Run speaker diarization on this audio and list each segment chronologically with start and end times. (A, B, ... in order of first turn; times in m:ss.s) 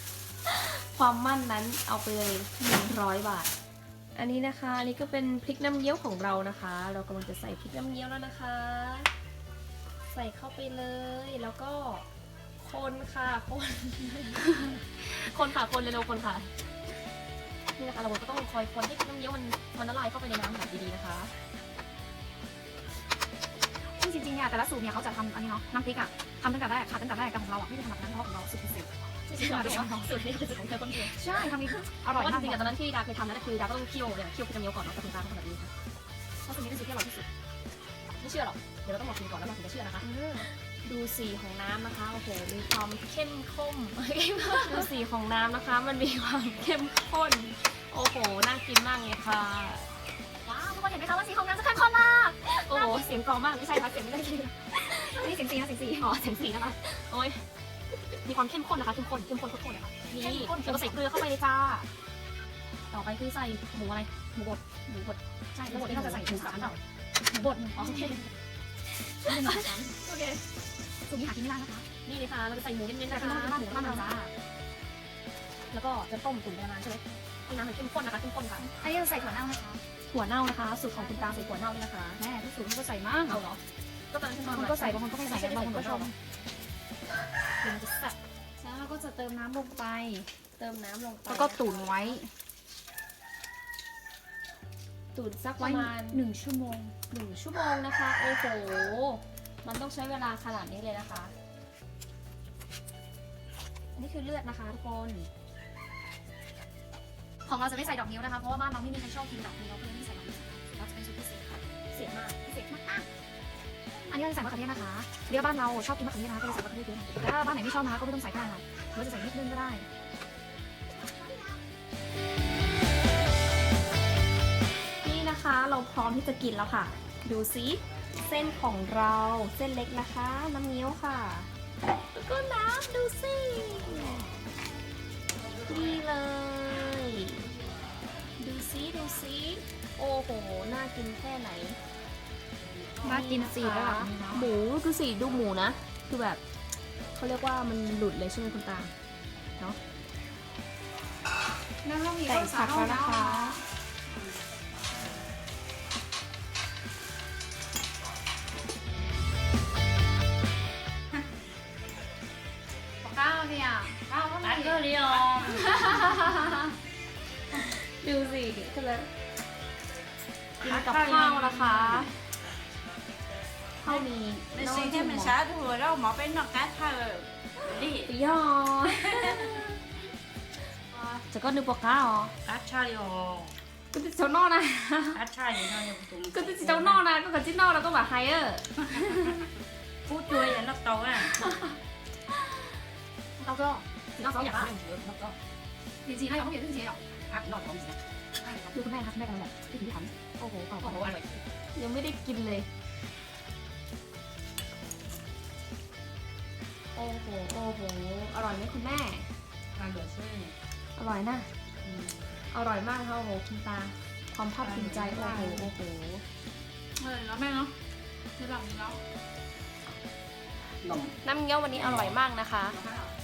0:00.4-0:03.5 A
0:04.2-0:09.1 A
0:10.1-0:12.0 A
0:12.6-0:16.5 A
0:17.8-0:21.3 A
0:24.0-0:30.1 B
0:29.3-0:31.2 A
0:30.8-0:32.7 B
0:32.0-0:35.7 A
0:36.4-0:37.2 A
0:38.2-0:49.9 A
0:40.0-0:40.5 B
0:50.4-0:53.1 B
0:51.3-0:55.3 A
0:54.8-0:56.1 B
0:56.0-0:57.4 A
0:58.2-1:01.9 A
1:00.1-1:01.0 B
1:02.9-1:06.8 A
1:05.5-1:08.2 B
1:07.8-1:08.2 A
1:09.2-1:10.3 B
1:09.2-1:10.3 A
1:11.0-1:11.8 B
1:12.0-1:14.1 A
1:13.1-1:14.3 B
1:15.7-1:18.7 A
1:18.8-1:19.8 B
1:20.1-1:22.2 A
1:20.9-1:21.5 B
1:22.2-1:23.4 B
1:23.2-1:26.1 A
1:24.4-1:26.1 B
1:27.6-1:30.3 B
1:30.6-1:32.1 A
1:31.2-1:32.3 B
1:35.1-1:36.2 A
1:35.6-1:37.0 B
1:37.1-1:41.3 A
1:43.9-1:45.3 A
1:47.4-1:51.6 B
1:51.9-1:52.4 A
1:52.4-1:53.1 B
1:54.0-1:59.9 B
2:05.0-2:11.5 A
2:12.1-2:14.2 A
2:15.7-2:17.5 A
2:18.4-2:21.8 A
2:23.0-2:26.4 A
2:23.0-2:24.5 B
2:27.1-2:28.9 A
2:31.8-2:33.6 B
2:32.2-2:33.6 A
2:43.0-2:44.8 B
2:43.9-2:45.8 C
2:45.8-2:46.4 A
2:47.6-2:49.1 A
2:50.6-2:52.1 C
2:50.6-2:52.1 A
2:53.8-2:55.4 A
2:53.8-2:58.1 C
2:58.0-2:59.8 A
2:59.2-2:59.6 C
3:01.2-3:02.3 A
3:02.4-3:03.5 C
3:03.9-3:05.6 A
3:05.1-3:07.0 C
3:06.3-3:09.4 A
3:10.1-3:11.4 C
3:11.2-3:11.7 A
3:13.4-3:14.7 B
3:14.2-3:14.8 A
3:14.4-3:15.3 C
3:16.0-3:17.0 B
3:17.3-3:17.9 C
3:18.4-3:21.1 B
3:20.8-3:22.7 A
3:26.9-3:29.3 A
3:29.7-3:30.5 C
3:31.0-3:31.5 A
3:31.8-3:32.2 C
3:32.5-3:36.2 A
3:34.6-3:35.7 C
3:37.0-3:37.7 B
3:38.4-3:39.0 B
3:40.8-3:41.2 C
3:41.2-3:42.8 A
3:41.8-3:42.1 C